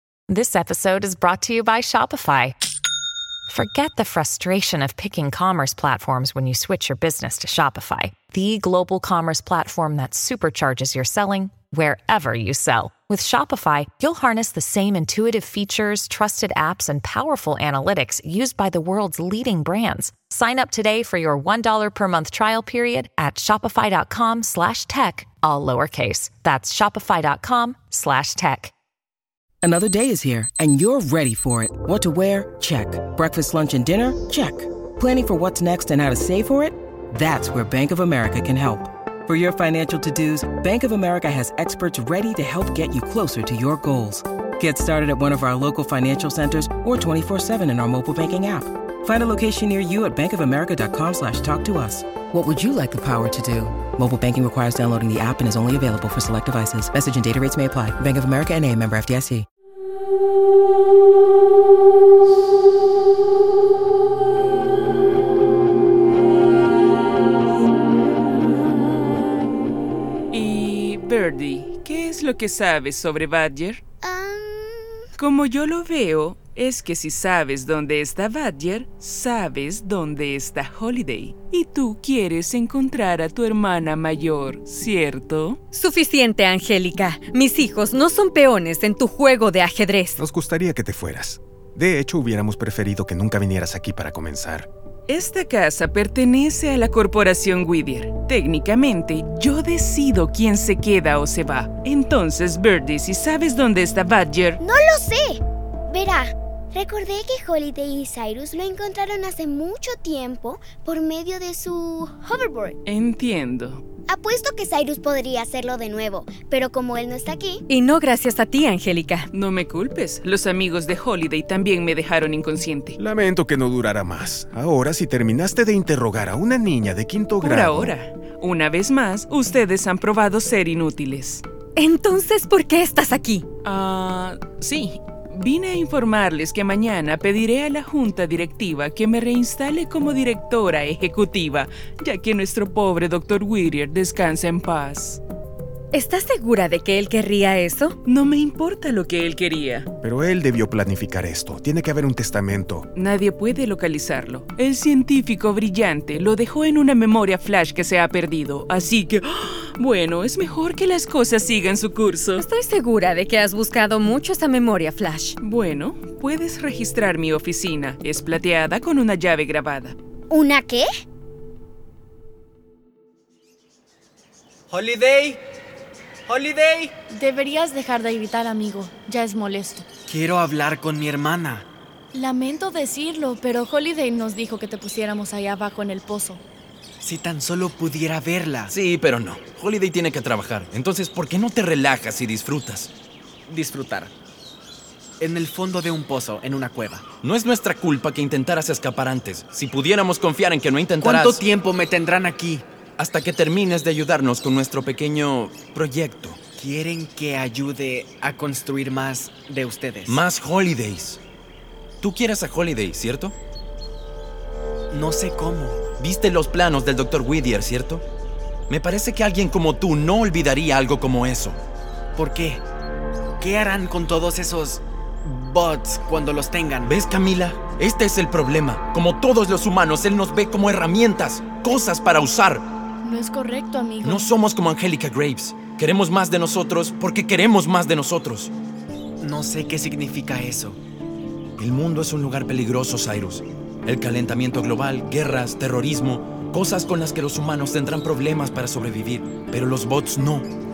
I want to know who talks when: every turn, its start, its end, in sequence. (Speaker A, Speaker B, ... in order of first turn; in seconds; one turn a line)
Speaker A: 0.3-2.5
Speaker A: 3.5-28.7
Speaker B: 29.6-59.5
Speaker C: 70.3-73.8
Speaker D: 74.0-75.0
Speaker C: 75.2-85.6
Speaker E: 85.7-90.2
Speaker F: 90.2-94.7
Speaker C: 95.1-104.6
Speaker D: 104.6-112.8
Speaker C: 112.8-113.8
Speaker D: 114.1-117.6
Speaker E: 117.7-119.3
Speaker C: 119.3-123.0
Speaker F: 123.0-127.9
Speaker C: 127.4-131.4
Speaker E: 131.8-133.4
Speaker C: 133.6-145.2
Speaker E: 145.9-147.9
Speaker C: 148.0-149.9
Speaker F: 150.0-152.8
Speaker C: 152.9-162.5
Speaker E: 162.4-165.3
Speaker C: 165.4-169.9
Speaker D: 170.3-170.9
Speaker G: 174.7-175.4
Speaker G: 176.3-176.9
Speaker H: 177.1-179.8
Speaker G: 180.1-181.7
Speaker H: 182.1-186.4
Speaker G: 187.0-188.7
Speaker I: 188.7-192.9
Speaker G: 193.5-194.1
Speaker G: 195.2-197.0
Speaker I: 197.2-201.4
Speaker G: 201.0-202.6
Speaker I: 203.0-206.4
Speaker G: 206.6-210.2
Speaker I: 210.1-211.2
Speaker I: 212.0-213.3
Speaker G: 214.9-215.8
Speaker I: 216.0-218.0
Speaker I: 218.7-221.6
Speaker G: 222.2-222.6
Speaker G: 223.4-226.9
Speaker I: 226.8-232.7
Speaker H: 233.0-234.3
Speaker I: 234.0-238.5
Speaker G: 239.2-240.8
Speaker I: 241.6-250.5